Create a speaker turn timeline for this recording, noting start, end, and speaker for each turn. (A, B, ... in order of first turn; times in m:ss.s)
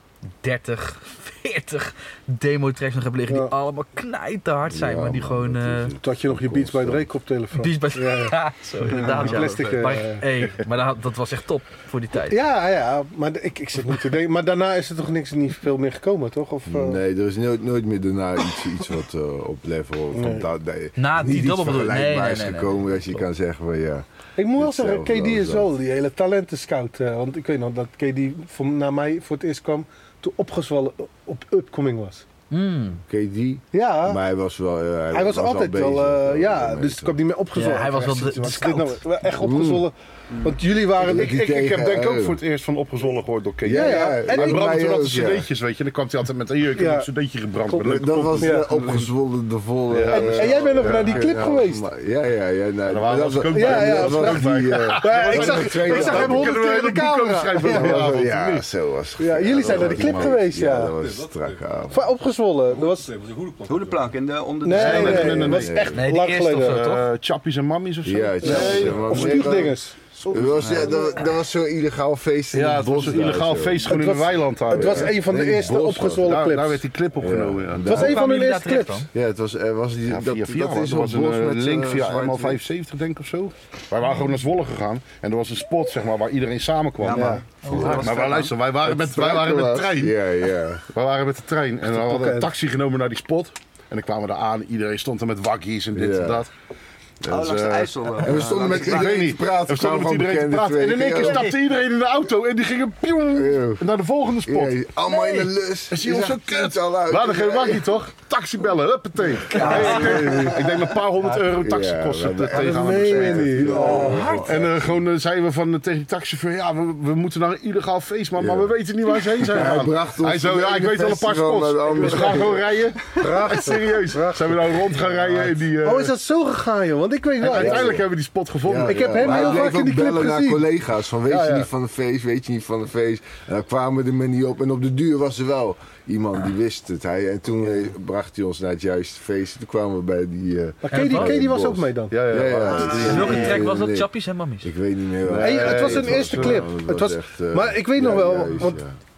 0:00.4-0:05.9 A
0:03.3-0:03.5 B
0:04.7-0:07.1 C
0:06.0-0:10.4 B
0:07.5-0:12.4 A
0:08.8-0:09.4 D
0:12.2-0:17.0 B
0:16.6-0:24.0 C
0:20.1-0:20.5 B
0:21.0-0:23.1 A
0:24.4-0:32.2 B
0:24.6-0:25.7 C
0:32.5-0:33.0 A
0:33.0-0:37.2 C
0:33.7-0:34.2 B
0:35.1-0:41.7 B
0:37.5-0:39.0 A
0:39.4-0:39.8 C
0:41.0-0:42.4 C
0:41.1-0:48.6 E
0:43.6-0:45.5 C
0:43.7-0:44.7 B
0:46.8-0:47.1 B
0:47.8-0:56.6 C
0:48.4-0:48.7 B
0:48.7-0:49.1 D
0:49.9-0:51.2 E
0:50.1-0:51.9 B
0:52.9-0:58.6 E
0:53.5-0:58.2 B
0:57.6-1:02.1 C
0:59.2-1:01.0 B
1:01.9-1:03.2 B
1:03.6-1:05.6 D
1:04.6-1:06.9 B
1:04.7-1:11.0 E
1:05.4-1:06.0 C
1:05.9-1:07.0 A
1:08.0-1:14.0 C
1:08.4-1:10.0 B
1:12.5-1:15.3 E
1:13.8-1:16.8 B
1:14.7-1:16.4 C
1:16.2-1:18.0 E
1:17.2-1:18.2 C
1:17.8-1:19.0 B
1:17.9-1:19.1 A
1:19.1-1:22.6 C
1:20.1-1:30.2 E
1:27.0-1:28.5 D
1:27.1-1:27.4 B
1:27.6-1:28.4 A
1:27.7-1:28.0 C
1:28.8-1:30.8 C
1:30.9-1:36.5 E
1:31.9-1:32.5 B
1:35.9-1:36.4 C
1:37.2-2:06.1 E
1:37.3-1:39.1 D
1:38.2-1:41.5 C
1:43.3-1:43.8 C
1:44.4-1:48.0 C
1:49.5-1:51.0 D
1:49.6-1:50.2 A
1:49.6-1:50.9 C
1:51.5-1:54.8 C
1:52.5-1:54.4 B
1:54.0-1:54.6 A
1:58.4-1:58.7 C
1:59.4-2:02.8 C
2:02.0-2:02.5 B
2:03.2-2:08.0 B
2:07.4-2:09.7 E
2:07.5-2:08.0 C
2:08.6-2:24.1 C
2:08.8-2:10.6 B
2:09.2-2:09.5 D
2:11.3-2:11.7 E
2:20.8-2:23.5 B
2:20.9-2:21.3 A
2:22.1-2:23.6 E
2:22.9-2:24.7 A
2:24.6-2:28.9 C
2:25.2-2:26.7 E
2:25.4-2:28.8 B